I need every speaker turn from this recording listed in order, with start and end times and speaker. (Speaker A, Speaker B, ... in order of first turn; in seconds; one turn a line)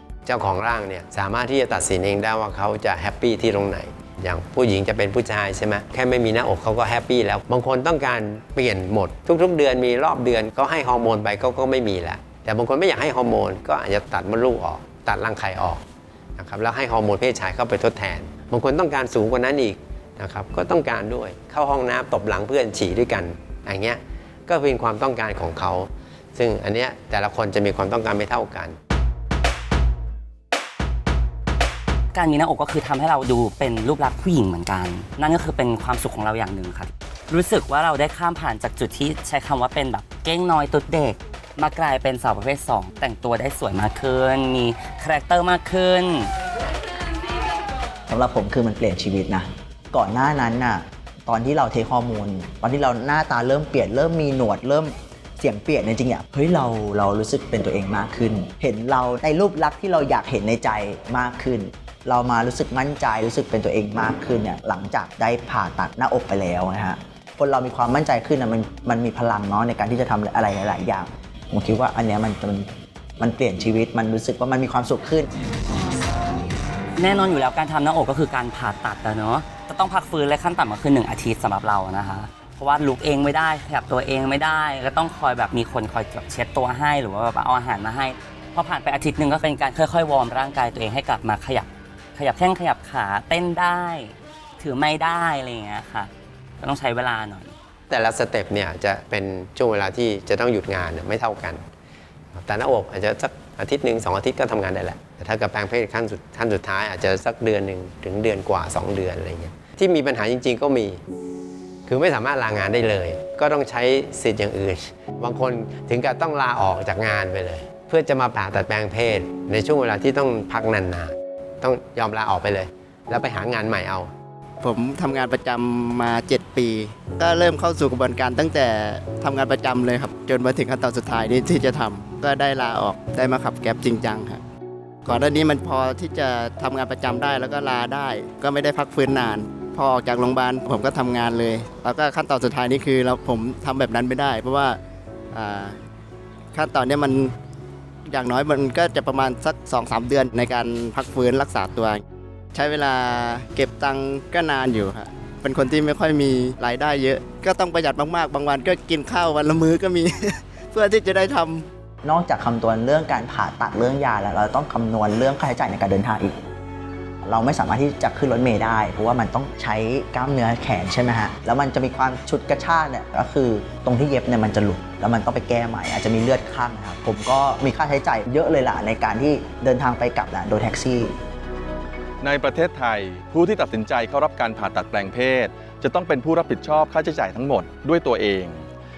Speaker A: 0.3-15.8
Speaker A: 16.4-28.8
Speaker B: 32.1-46.3
Speaker C: 48.1-75.3
Speaker B: 77.0-96.1
Speaker B: 96.6-97.5
Speaker A: 97.9-101.6
Speaker A: 102.3-111.0
Speaker A: 111.9-124.1
Speaker D: 124.6-134.4
Speaker D: 135.1-144.8
Speaker D: 145.3-145.8
Speaker D: 146.5-147.3
Speaker D: 148.1-152.0
Speaker D: 152.5-161.7
Speaker C: 162.0-166.4
Speaker C: 167.2-181.2
Speaker E: 182.2-188.7